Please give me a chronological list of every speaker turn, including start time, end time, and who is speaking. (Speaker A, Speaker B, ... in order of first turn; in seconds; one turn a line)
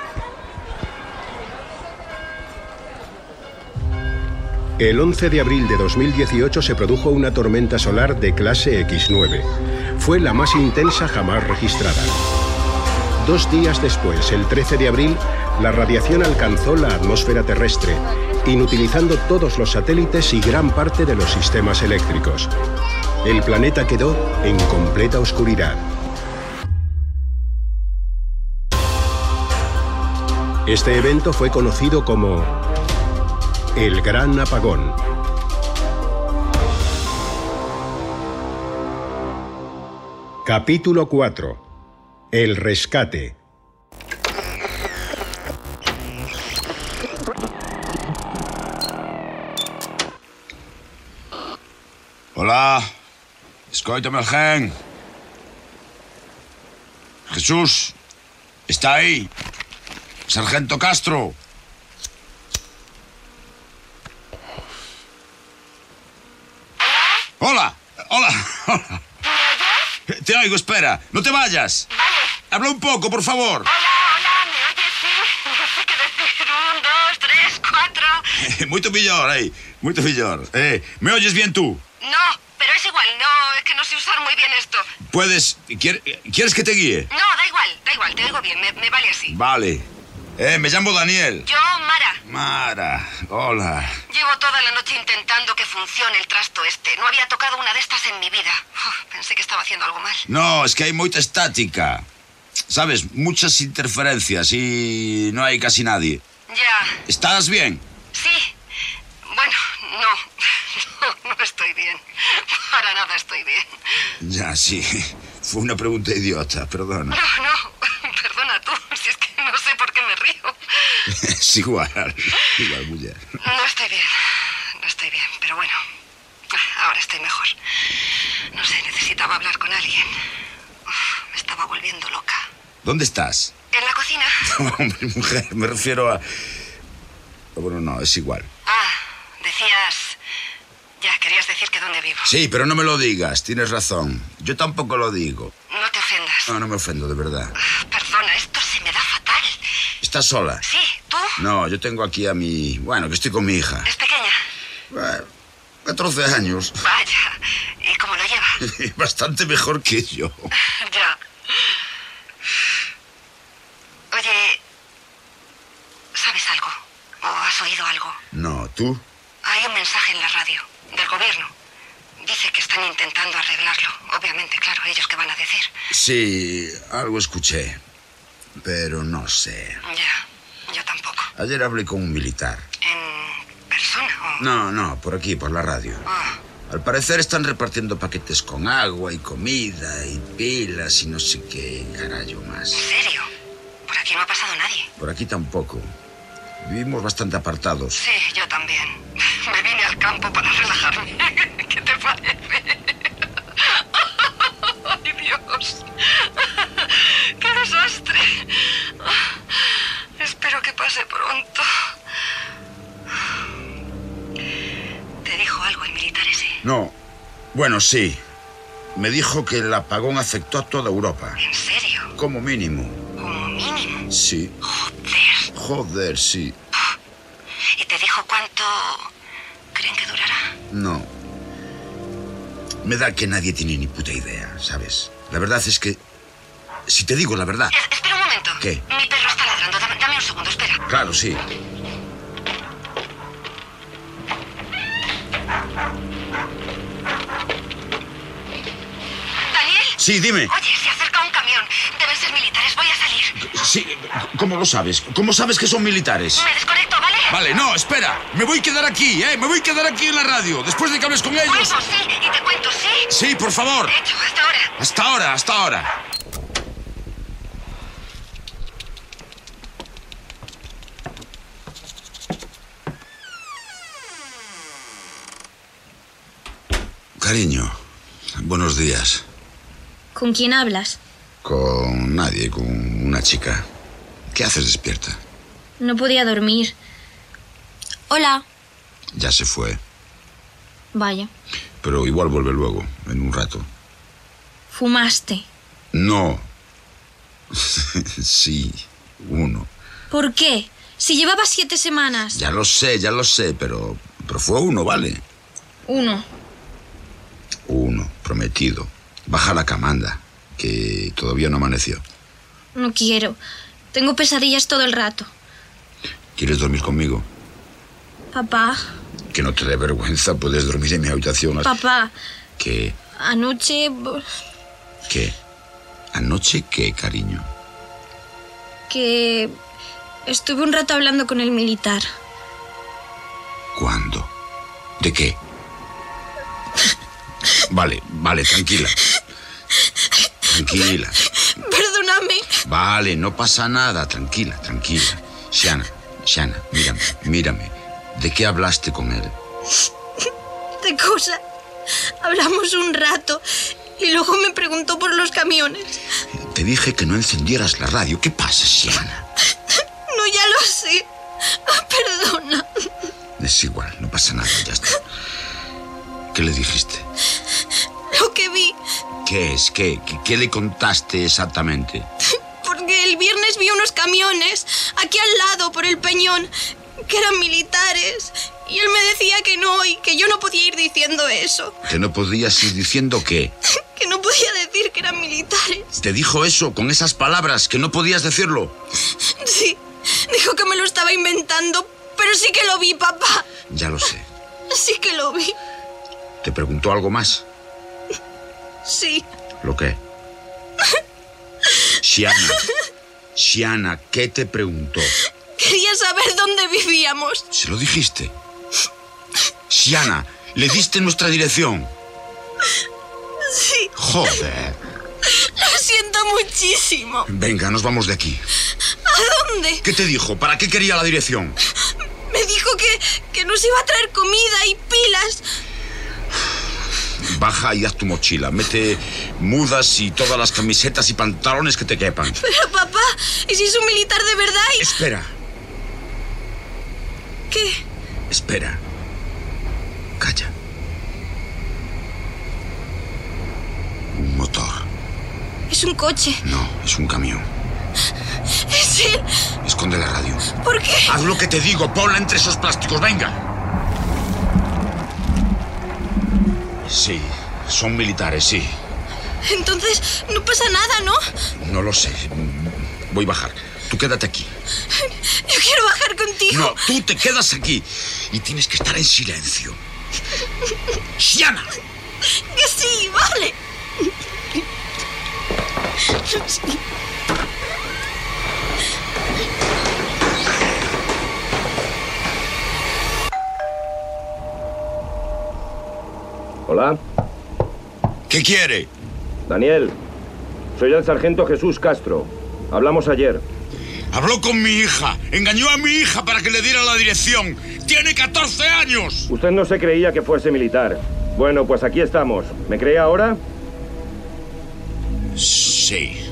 Speaker A: 4.8-9.5
Speaker A: 10.0-12.2
Speaker A: 13.2-22.5
Speaker A: 23.2-25.9
Speaker A: 30.7-32.6
Speaker A: 33.8-35.0
Speaker A: 40.5-41.6
Speaker A: 42.3-43.4
Speaker B: 52.4-52.9
Speaker B: 53.7-54.7
Speaker B: 57.3-58.0
Speaker B: 58.7-59.3
Speaker B: 60.3-61.4
Speaker B: 67.4-69.0
Speaker B: 70.1-71.9
Speaker B: 72.5-73.7
Speaker C: 73.7-78.3
Speaker B: 78.4-81.8
Speaker C: 82.0-84.9
Speaker B: 85.1-87.1
Speaker C: 87.1-89.3
Speaker B: 89.3-89.9
Speaker B: 90.4-91.5
Speaker C: 91.5-92.2
Speaker B: 92.2-94.0
Speaker C: 94.1-100.2
Speaker B: 100.3-102.1
Speaker B: 102.7-106.2
Speaker C: 106.5-107.0
Speaker B: 107.1-107.8
Speaker C: 108.1-108.5
Speaker C: 109.3-110.2
Speaker C: 110.8-114.1
Speaker B: 114.2-117.2
Speaker C: 117.1-121.0
Speaker B: 121.2-123.2
Speaker C: 123.4-124.1
Speaker C: 124.8-125.8
Speaker C: 126.6-127.5
Speaker C: 128.5-130.1
Speaker C: 131.3-132.4
Speaker B: 132.8-133.5
Speaker C: 133.7-134.4
Speaker B: 134.4-136.2
Speaker B: 137.6-138.5
Speaker C: 138.7-140.2
Speaker C: 141.0-142.3
Speaker B: 142.2-145.5
Speaker C: 145.7-146.5
Speaker B: 146.5-147.5
Speaker C: 147.7-149.5
Speaker B: 150.0-150.6
Speaker C: 150.7-151.4
Speaker B: 151.4-153.9
Speaker C: 153.9-154.4
Speaker B: 154.9-155.3
Speaker B: 155.8-156.8
Speaker C: 156.8-158.5
Speaker B: 158.6-160.5
Speaker C: 160.8-161.2
Speaker C: 164.1-164.6
Speaker C: 166.2-168.2
Speaker B: 168.3-169.0
Speaker C: 169.4-171.5
Speaker C: 172.2-175.7
Speaker B: 175.9-177.8
Speaker B: 178.6-179.8
Speaker C: 179.9-181.3
Speaker B: 181.3-182.7
Speaker C: 182.8-184.4
Speaker B: 184.4-186.0
Speaker C: 186.1-186.4
Speaker B: 186.7-192.9
Speaker C: 192.7-193.3
Speaker C: 193.9-194.9
Speaker B: 195.0-195.9
Speaker B: 196.6-198.0
Speaker C: 197.9-202.9
Speaker C: 204.8-205.9
Speaker C: 207.0-208.5
Speaker C: 210.2-211.7
Speaker C: 215.2-216.6
Speaker B: 216.6-216.9
Speaker B: 217.5-218.2
Speaker B: 218.9-221.4
Speaker C: 221.4-222.1
Speaker B: 222.2-223.0
Speaker C: 223.2-224.0
Speaker B: 224.1-224.6
Speaker C: 224.9-225.5
Speaker B: 225.5-226.6
Speaker C: 227.8-229.1
Speaker C: 229.8-230.5
Speaker B: 230.7-231.1
Speaker B: 232.8-236.0
Speaker B: 236.9-237.8
Speaker C: 237.7-240.8
Speaker B: 238.6-238.8
Speaker B: 240.9-241.4
Speaker C: 249.5-249.9
Speaker B: 250.0-250.5
Speaker C: 250.5-253.3
Speaker B: 253.4-256.5
Speaker C: 256.4-257.3
Speaker B: 257.3-261.8
Speaker C: 261.4-263.1
Speaker B: 263.1-264.0
Speaker C: 263.9-264.7
Speaker B: 264.8-265.9
Speaker B: 277.2-277.8
Speaker B: 278.4-279.2
Speaker D: 280.1-281.0
Speaker B: 281.4-283.6
Speaker B: 284.3-285.2
Speaker D: 285.8-286.8
Speaker D: 288.1-288.4
Speaker B: 289.2-289.8
Speaker D: 290.9-291.3
Speaker B: 291.8-293.7
Speaker D: 294.7-295.5
Speaker B: 295.9-296.5
Speaker B: 297.6-299.7
Speaker D: 300.1-302.4
Speaker B: 302.3-305.2
Speaker D: 305.9-306.2
Speaker B: 307.7-312.0
Speaker D: 312.8-313.4
Speaker D: 313.9-315.3
Speaker B: 316.4-317.3
Speaker D: 318.3-318.8
Speaker B: 319.3-321.8
Speaker D: 321.6-322.1
Speaker B: 322.6-323.0
Speaker D: 323.2-324.2
Speaker B: 325.1-325.4
Speaker B: 326.1-327.5
Speaker D: 328.9-329.5
Speaker D: 330.3-332.1
Speaker B: 333.7-334.3
Speaker B: 335.0-335.4
Speaker B: 337.7-339.0
Speaker B: 340.5-341.2
Speaker D: 341.4-342.6
Speaker B: 342.6-349.3
Speaker D: 350.8-351.4
Speaker D: 352.2-353.4
Speaker D: 354.0-356.0
Speaker B: 356.5-359.2
Speaker D: 360.1-362.7
Speaker B: 363.4-365.0
Speaker B: 366.3-367.1
Speaker D: 368.1-368.8
Speaker B: 369.2-372.1
Speaker D: 372.6-376.5
Speaker D: 377.1-381.8
Speaker B: 381.9-383.5
Speaker D: 383.9-385.9
Speaker B: 386.0-388.8
Speaker D: 389.4-393.5
Speaker B: 393.7-394.3
Speaker D: 394.7-395.6
Speaker B: 396.4-397.4
Speaker D: 398.9-399.2
Speaker B: 399.6-400.0
Speaker B: 402.0-402.6
Speaker B: 403.4-405.2
Speaker D: 405.6-407.4
Speaker B: 407.5-408.3
Speaker B: 409.7-411.9
Speaker D: 413.5-413.9
Speaker B: 413.9-414.8
Speaker D: 415.2-417.3
Speaker B: 417.3-418.4
Speaker D: 419.1-419.9
Speaker B: 419.8-421.6
Speaker D: 422.3-425.4
Speaker B: 427.2-432.4
Speaker D: 432.4-434.9
Speaker B: 434.8-435.3
Speaker D: 437.5-437.8
Speaker B: 438.3-438.8
Speaker B: 440.2-440.5
Speaker B: 444.1-444.9
Speaker D: 445.7-446.4
Speaker B: 446.4-447.5
Speaker D: 448.7-449.2
Speaker B: 449.6-450.5
Speaker D: 450.6-451.2
Speaker B: 451.1-453.4
Speaker B: 456.8-458.8
Speaker D: 459.4-461.2
Speaker B: 461.6-464.5
Speaker D: 465.0-466.9
Speaker B: 466.5-469.8
Speaker B: 471.2-471.7
Speaker D: 472.4-473.6
Speaker D: 476.2-476.8
Speaker E: 486.7-487.0
Speaker B: 488.3-488.9
Speaker E: 489.5-490.0
Speaker E: 490.8-493.4
Speaker B: 494.1-499.3
Speaker E: 499.3-503.4
Speaker B: 505.4-506.2